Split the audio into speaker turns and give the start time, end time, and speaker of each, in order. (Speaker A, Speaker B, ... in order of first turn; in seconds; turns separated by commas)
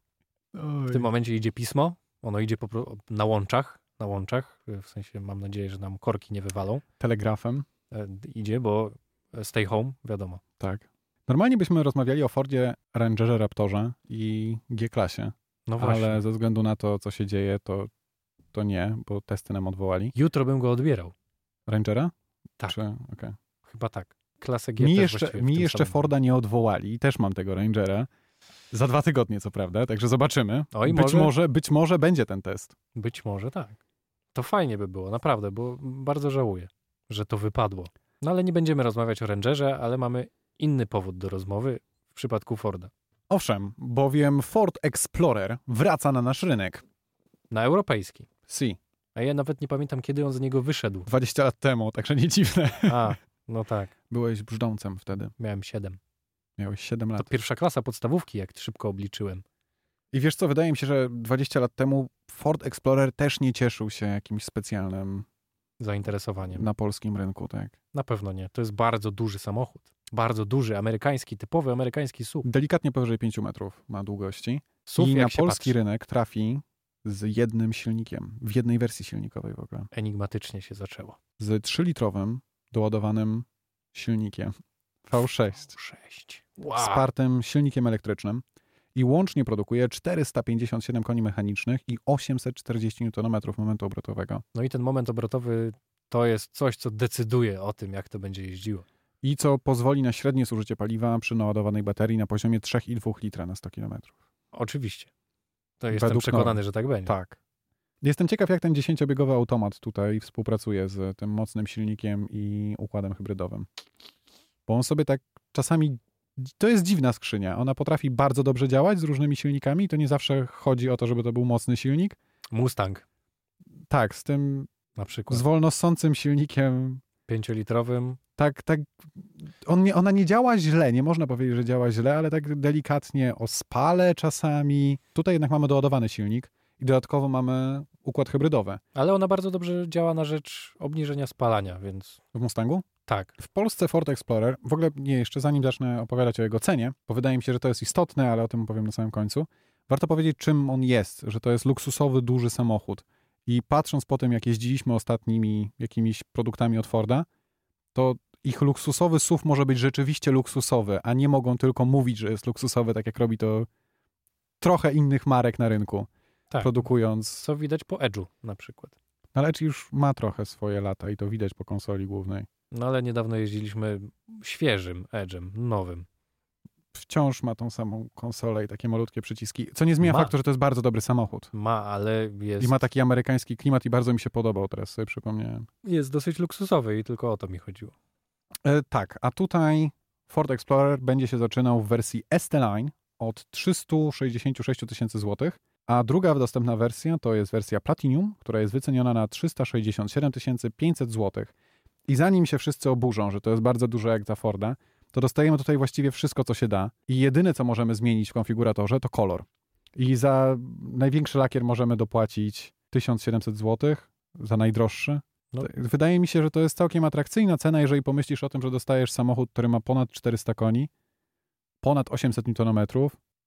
Speaker A: 0.5-1.1, Speaker B: 0.9-6.8, Speaker A: 7.0-7.7, Speaker B: 7.9-10.4, Speaker A: 10.6-17.9, Speaker B: 15.7-16.2, Speaker A: 18.5-20.1, Speaker B: 20.1-21.1, Speaker A: 21.7-22.1, Speaker A: 22.7-23.4, Speaker B: 23.6-26.1, Speaker A: 24.8-28.1, Speaker A: 28.7-32.8, Speaker B: 30.7-31.4, Speaker B: 33.0-33.8, Speaker B: 34.3-42.9, Speaker A: 43.3-46.8, Speaker B: 47.5-48.3, Speaker A: 48.5-48.8, Speaker B: 49.1-51.1, Speaker A: 51.1-53.2, Speaker B: 52.9-53.9, Speaker A: 54.1-55.3, Speaker B: 55.4-56.0, Speaker A: 56.6-57.3, Speaker B: 57.2-59.4, Speaker A: 60.1-65.3, Speaker B: 65.8-66.7, Speaker A: 66.5-67.7, Speaker B: 67.9-72.5, Speaker A: 72.4-79.9, Speaker B: 74.9-75.8, Speaker B: 79.9-81.2, Speaker A: 81.4-84.5, Speaker A: 85.1-85.8, Speaker B: 85.7-87.0, Speaker A: 86.7-88.4, Speaker A: 89.0-94.4, Speaker B: 94.5-98.8, Speaker A: 99.2-104.1, Speaker B: 104.5-105.1, Speaker B: 105.8-107.1, Speaker A: 105.9-107.4, Speaker A: 108.0-113.7, Speaker A: 114.7-122.2, Speaker B: 122.5-123.0, Speaker A: 123.9-124.7, Speaker B: 125.0-125.4, Speaker A: 125.3-127.0, Speaker B: 127.3-128.2, Speaker A: 128.4-138.8, Speaker B: 138.9-142.2, Speaker A: 142.3-142.9, Speaker B: 143.1-143.3, Speaker A: 143.4-157.3, Speaker A: 157.9-163.7, Speaker A: 164.6-166.1, Speaker B: 166.5-166.9, Speaker A: 166.6-167.5, Speaker B: 167.4-168.9, Speaker A: 169.3-172.5, Speaker B: 172.7-176.1, Speaker A: 176.9-181.5, Speaker B: 180.0-180.3, Speaker B: 181.5-182.9, Speaker A: 182.6-185.7, Speaker B: 185.8-187.9, Speaker A: 188.7-201.5, Speaker A: 202.1-220.9, Speaker A: 221.8-223.2